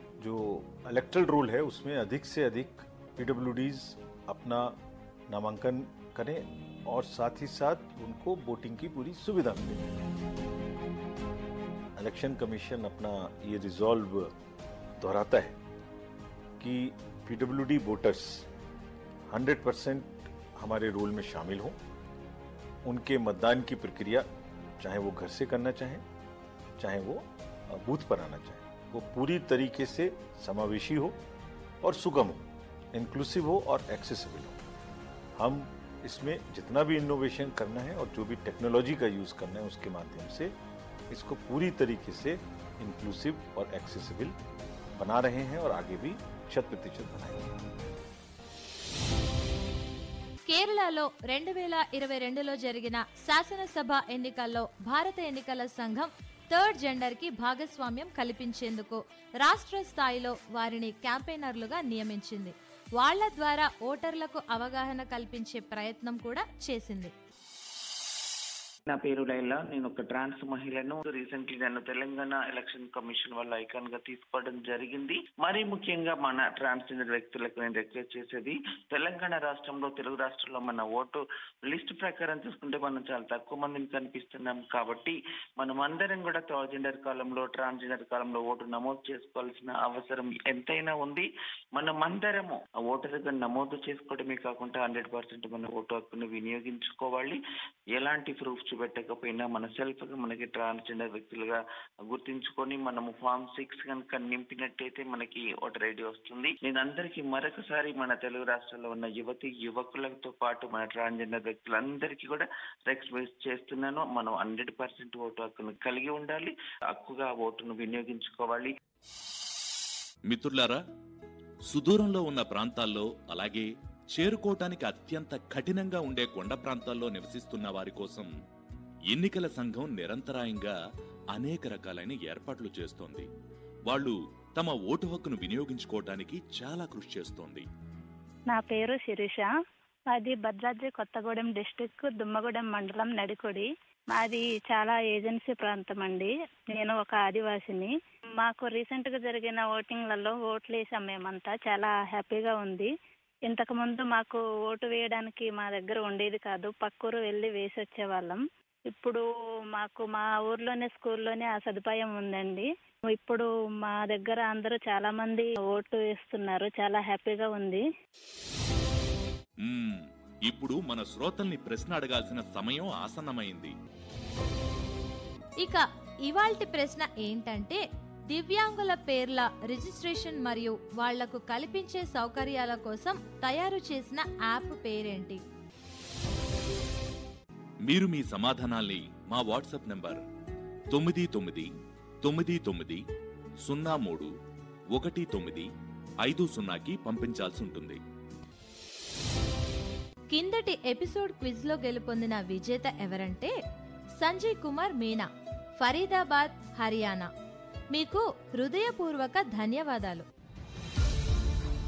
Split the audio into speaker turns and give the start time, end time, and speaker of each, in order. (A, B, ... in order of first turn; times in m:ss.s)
0:00.2-0:04.7 A
0:05.3-0:09.8 A
0:12.0-0:14.3 A
0:15.0-0:15.6 A
0:16.6-0:18.5 A
0:19.3-0:21.8 A
0:22.8-0:24.3 A
0:24.8-0:26.0 A
0:26.8-0:31.2 A
0:31.8-0:34.6 A
0:35.4-0:40.5 A
0:41.1-0:44.4 A
0:45.0-0:47.5 A
0:50.5-1:07.1 B
1:08.9-1:37.4 C
1:37.9-1:58.8 C
2:00.3-2:00.8 D
2:01.7-2:08.3 D
2:09.1-2:10.7 D
2:11.4-2:13.3 D
2:13.9-2:17.7 D
2:18.5-2:19.5 E
2:20.1-2:32.9 E
2:33.5-2:47.8 E
2:49.6-2:53.7 D
2:55.6-3:05.4 B
3:07.9-3:10.2 D
3:10.9-3:11.7 D
3:12.2-3:13.0 D
3:13.6-3:14.3 D
3:15.0-3:15.7 D
3:16.2-3:18.0 D
3:20.3-3:23.5 B
3:24.2-3:25.3 B
3:25.8-3:27.3 B
3:27.9-3:30.3 B